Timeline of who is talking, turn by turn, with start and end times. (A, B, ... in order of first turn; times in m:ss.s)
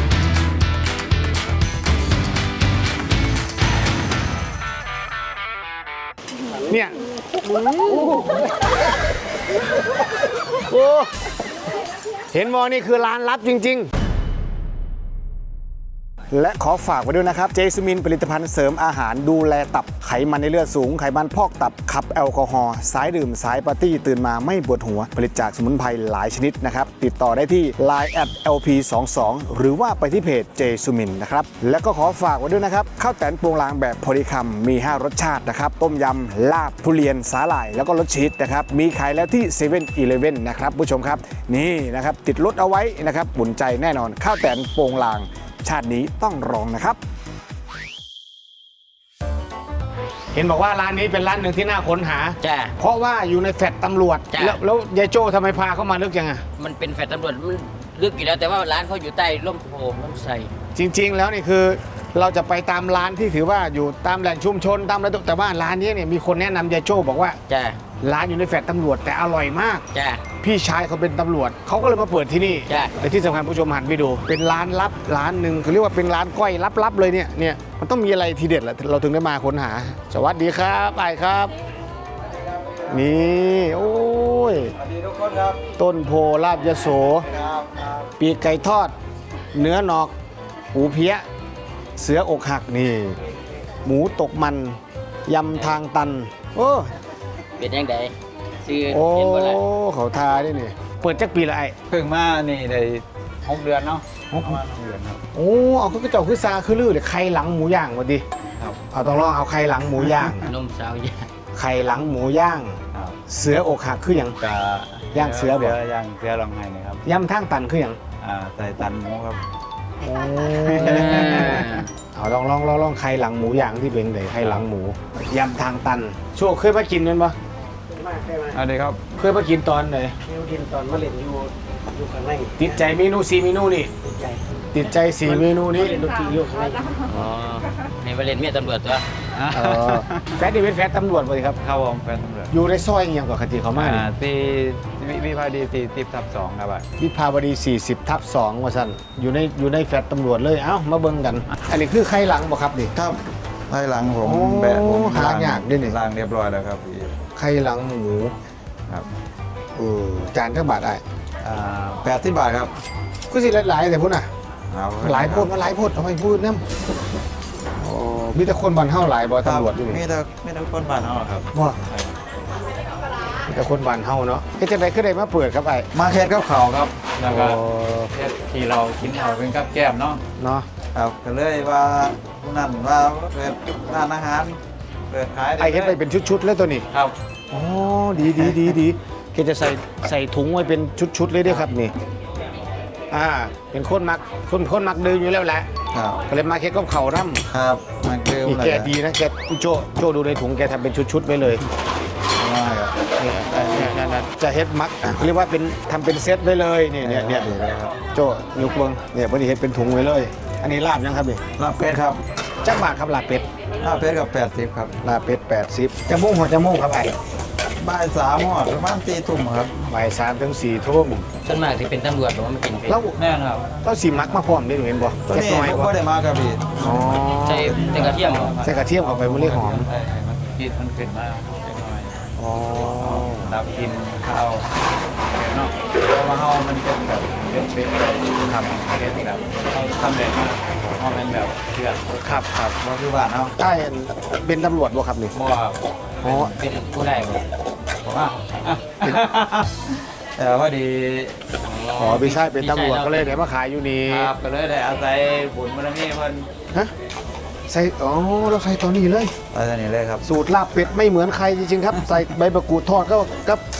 0:06.6-0:08.3 A
0:10.7-0:11.1 A
0:12.3-0:13.9 A
0:16.3-0:47.0 A
0:50.3-0:56.4 A
0:52.4-0:52.7 B
0:54.3-0:54.6 B
0:56.6-1:00.5 B
1:00.7-1:07.4 A
1:07.5-1:07.8 B
1:08.0-1:09.8 A
1:09.9-1:10.2 B
1:10.4-1:21.5 A
1:12.6-1:12.9 B
1:22.9-1:24.7 A
1:24.8-1:25.6 C
1:25.8-1:27.3 A
1:26.8-1:28.1 C
1:28.2-1:28.9 A
1:29.5-1:30.1 A
1:30.7-1:31.2 A
1:32.0-1:33.2 A
1:33.8-1:36.9 A
1:37.6-1:39.6 B
1:38.9-1:41.7 A
1:41.9-1:45.2 C
1:44.3-1:44.6 A
1:45.3-1:48.2 A
1:48.9-1:50.5 A
1:50.4-1:51.3 B
1:51.5-1:54.4 A
1:54.4-1:57.0 C
1:55.1-1:55.8 A
1:57.0-1:58.0 A
1:58.2-1:59.4 C
2:00.0-2:07.4 A
2:00.6-2:01.7 C
2:00.8-2:01.9 B
2:08.0-2:08.4 D
2:08.5-2:09.0 C
2:09.2-2:10.2 A
2:10.3-2:12.5 D
2:12.5-2:13.9 A
2:14.7-2:16.2 A
2:16.1-2:17.0 D
2:17.0-2:19.0 B
2:19.3-2:20.4 C
2:19.5-2:21.6 A
2:21.6-2:22.5 C
2:22.5-2:24.1 A
2:23.7-2:26.8 C
2:27.0-2:32.9 A
2:32.9-2:37.2 C
2:34.2-2:36.0 A
2:37.3-2:38.3 A
2:39.8-2:41.0 A
2:41.4-2:42.7 C
2:43.3-2:44.3 A
2:44.7-2:45.5 C
2:45.0-2:46.6 A
2:47.8-2:50.0 A
2:49.4-2:52.2 C
2:51.5-2:51.8 A
2:53.5-2:55.9 A
2:55.9-2:57.6 C
2:57.3-2:58.1 A
2:58.1-3:00.2 C
3:00.4-3:00.7 A
3:00.9-3:06.0 C
3:05.6-3:06.8 A
3:07.5-3:11.9 A
3:13.1-3:15.7 A
3:15.9-3:16.2 C
3:16.3-3:17.4 A
3:17.5-3:18.9 C
3:18.4-3:21.6 A
3:22.3-3:24.0 C
3:23.2-3:27.5 A
3:27.0-3:27.9 C
3:28.1-3:31.4 A
3:31.6-3:32.2 C
3:32.6-3:33.4 A
3:33.8-3:35.0 C
3:35.0-3:37.1 A
3:37.8-3:39.7 C
3:39.8-3:41.2 A
3:41.4-3:43.0 B
3:42.9-3:43.2 A
3:43.2-3:43.7 C
3:43.8-3:45.9 A
3:45.3-3:52.1 C
3:46.8-3:47.8 A
3:47.4-3:48.6 B
3:48.6-3:49.9 A
3:52.4-3:53.6 A
3:53.0-3:54.7 C
3:55.3-4:03.5 C
4:02.2-4:02.5 A
4:03.6-4:05.4 A
4:05.5-4:05.8 B
4:06.2-4:06.5 A
4:06.4-4:07.4 B
4:08.0-4:11.4 C
4:11.6-4:13.4 B
4:12.0-4:14.3 A
4:14.0-4:16.5 C
4:17.7-4:19.3 A
4:19.5-4:20.2 C
4:20.2-4:23.6 A